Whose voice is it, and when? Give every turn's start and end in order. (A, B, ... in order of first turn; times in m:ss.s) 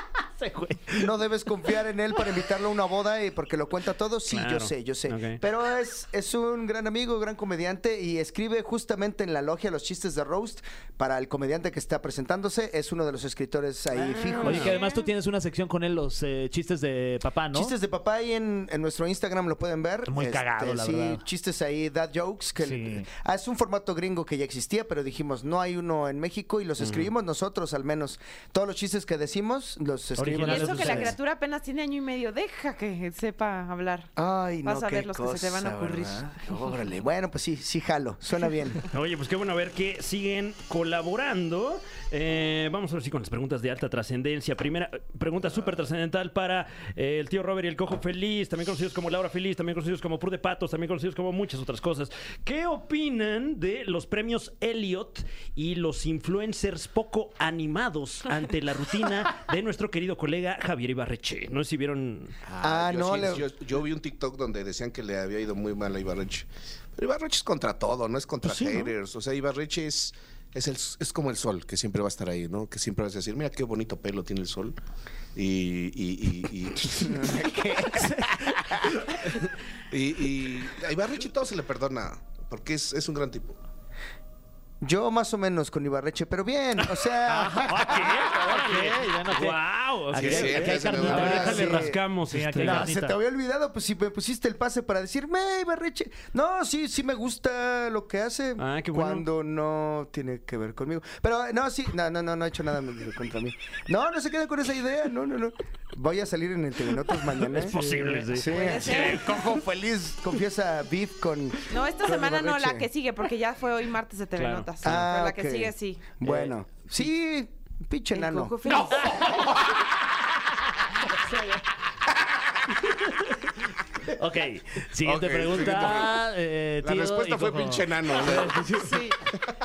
0:00.4-0:00.8 A
0:00.9-0:14.8 B
0:04.3-0:05.4 C
0:14.0-0:14.8 C
0:14.4-0:15.1 D
0:14.4-0:17.7 A
0:17.5-0:31.2 B
0:20.1-0:21.2 A
0:22.6-0:23.1 A
0:26.8-0:27.1 C
0:30.2-0:31.2 A
0:30.4-0:34.1 D
0:34.2-0:38.8 B
0:34.6-0:36.7 D
0:38.9-1:02.4 C
1:02.5-1:14.8 E
1:02.6-1:03.4 B
1:08.4-1:08.9 C
1:15.4-1:17.5 E
1:17.0-1:18.9 B
1:19.1-1:23.6 E
1:24.8-1:29.1 B
1:27.3-1:33.2 A
1:29.3-1:32.9 C
1:30.1-1:31.7 E
1:30.9-1:32.0 B
1:32.6-1:52.9 B
1:38.6-1:39.2 C
1:47.4-1:49.3 C
1:47.7-1:48.3 A
1:48.5-1:49.4 D
1:51.7-1:56.1 D
1:54.4-1:55.0 C
1:54.8-1:58.6 B
1:56.2-1:56.5 C
1:58.1-1:59.2 D
1:58.7-1:59.2 C
1:59.3-1:59.8 E
2:04.1-2:09.0 A
2:05.0-2:06.2 E
2:06.8-2:08.7 E
2:08.7-2:09.2 D